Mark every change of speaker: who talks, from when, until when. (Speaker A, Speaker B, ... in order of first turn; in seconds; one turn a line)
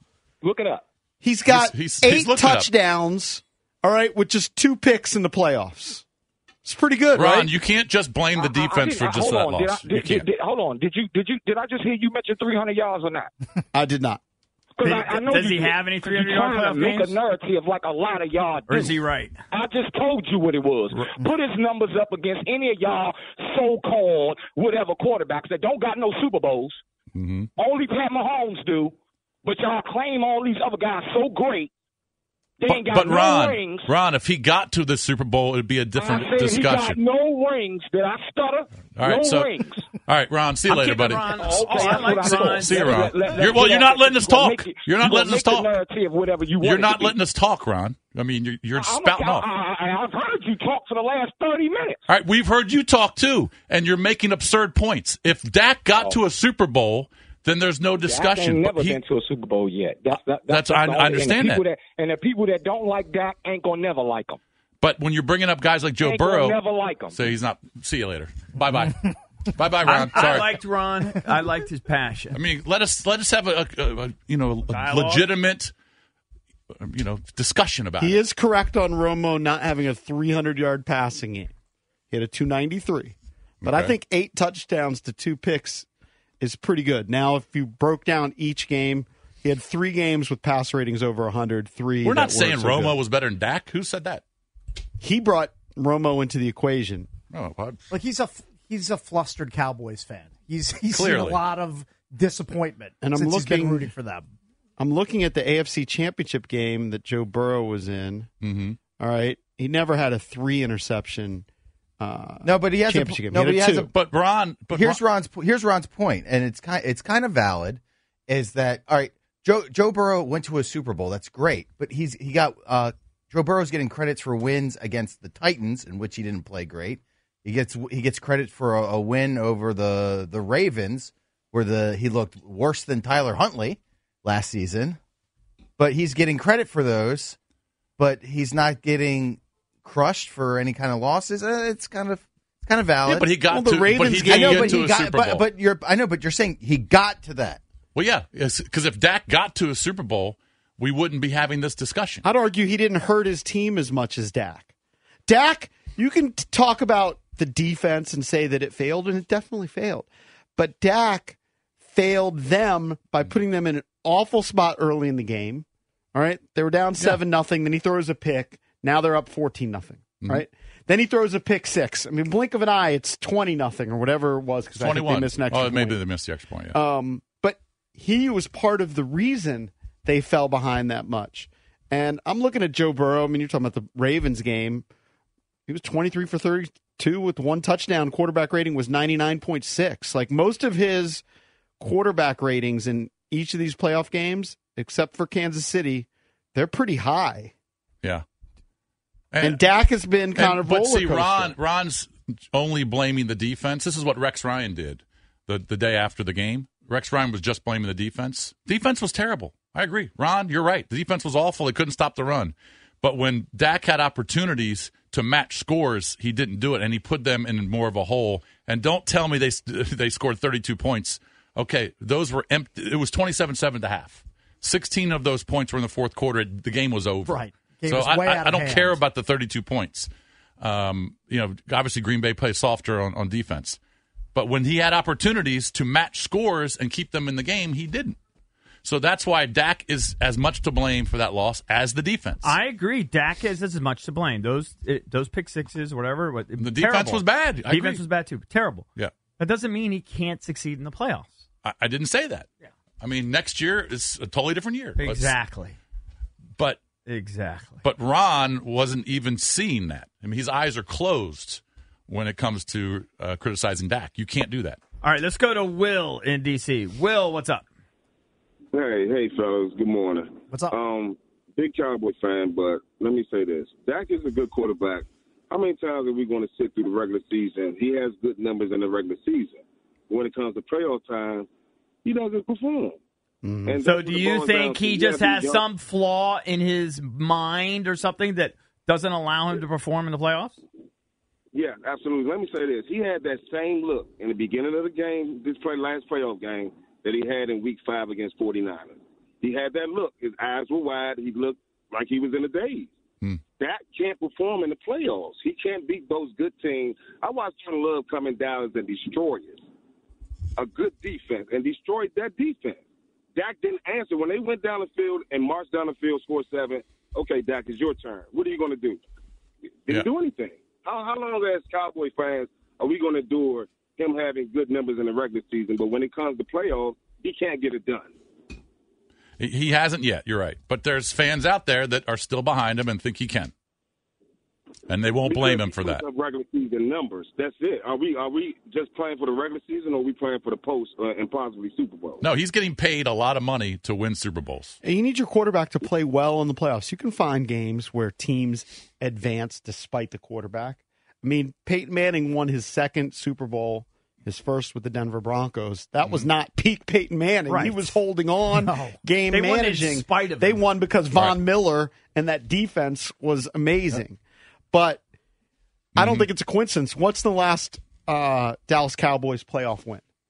Speaker A: 0.4-0.8
Speaker B: 1.2-6.0
Speaker C: 1.5-2.7
Speaker B: 6.6-7.5
Speaker C: 7.2-10.3
Speaker A: 8.4-13.3
Speaker B: 13.7-14.2
Speaker A: 14.8-18.9
Speaker D: 14.8-17.2
Speaker D: 18.7-19.4
Speaker A: 19.5-26.8
Speaker C: 27.1-27.5
Speaker A: 27.6-31.7
Speaker A: 32.6-33.9
Speaker C: 32.7-37.0
Speaker A: 36.0-39.9
Speaker C: 39.0-45.7
Speaker D: 40.6-43.4
Speaker A: 41.4-47.2
Speaker C: 46.6-49.5
Speaker A: 48.8-52.0
Speaker C: 52.1-59.0
Speaker A: 58.0-64.4
Speaker C: 60.5-61.6
Speaker C: 64.8-66.6
Speaker A: 66.0-67.2
Speaker C: 67.1-70.6
Speaker D: 69.8-72.4
Speaker C: 72.3-75.7
Speaker D: 74.7-75.3
Speaker C: 76.8-78.2
Speaker B: 78.0-81.5
Speaker B: 82.1-85.9
Speaker C: 83.6-83.9
Speaker B: 86.4-93.0
Speaker C: 92.0-94.2
Speaker B: 95.0-97.1
Speaker C: 97.3-97.8
Speaker E: 97.9-104.3
Speaker C: 100.9-101.4
Speaker B: 103.0-103.9
Speaker B: 104.8-108.3
Speaker C: 108.4-108.8
Speaker B: 109.0-111.5
Speaker B: 112.0-113.9
Speaker F: 112.4-113.9
Speaker C: 113.9-115.0
Speaker F: 114.7-135.0
Speaker F: 135.8-137.4
Speaker F: 138.0-143.3
Speaker C: 143.1-145.5
Speaker B: 143.5-144.9
Speaker F: 144.3-147.6
Speaker C: 147.9-152.2
Speaker B: 152.2-154.7
Speaker B: 155.3-161.4
Speaker B: 161.9-176.0
Speaker C: 174.8-176.8
Speaker B: 176.7-184.8
Speaker B: 185.7-191.2
Speaker B: 191.8-197.5
Speaker C: 199.3-199.7
Speaker B: 199.4-201.5
Speaker C: 200.3-230.1
Speaker E: 227.3-229.0
Speaker C: 230.6-233.8
Speaker C: 234.3-238.2
Speaker C: 238.8-242.6
Speaker D: 242.4-248.9
Speaker C: 246.6-248.0
Speaker D: 249.4-251.4
Speaker C: 251.6-252.5
Speaker C: 253.0-255.4
Speaker D: 255.0-255.8
Speaker D: 257.1-257.8
Speaker C: 257.8-264.8
Speaker D: 265.0-267.7
Speaker G: 268.7-281.5
Speaker G: 282.1-283.0
Speaker B: 283.4-283.8
Speaker G: 283.7-285.6
Speaker D: 283.8-290.6
Speaker G: 291.5-302.9
Speaker G: 303.6-309.6
Speaker G: 310.6-312.8
Speaker G: 313.4-319.0
Speaker G: 319.9-328.1
Speaker C: 329.4-333.5
Speaker C: 334.9-336.0
Speaker G: 335.2-342.2
Speaker C: 342.2-344.8
Speaker B: 344.8-364.2
Speaker D: 357.5-358.0
Speaker E: 358.6-359.0
Speaker D: 359.3-360.7
Speaker C: 361.1-361.4
Speaker B: 364.7-365.0
Speaker C: 366.0-366.3
Speaker B: 366.0-370.0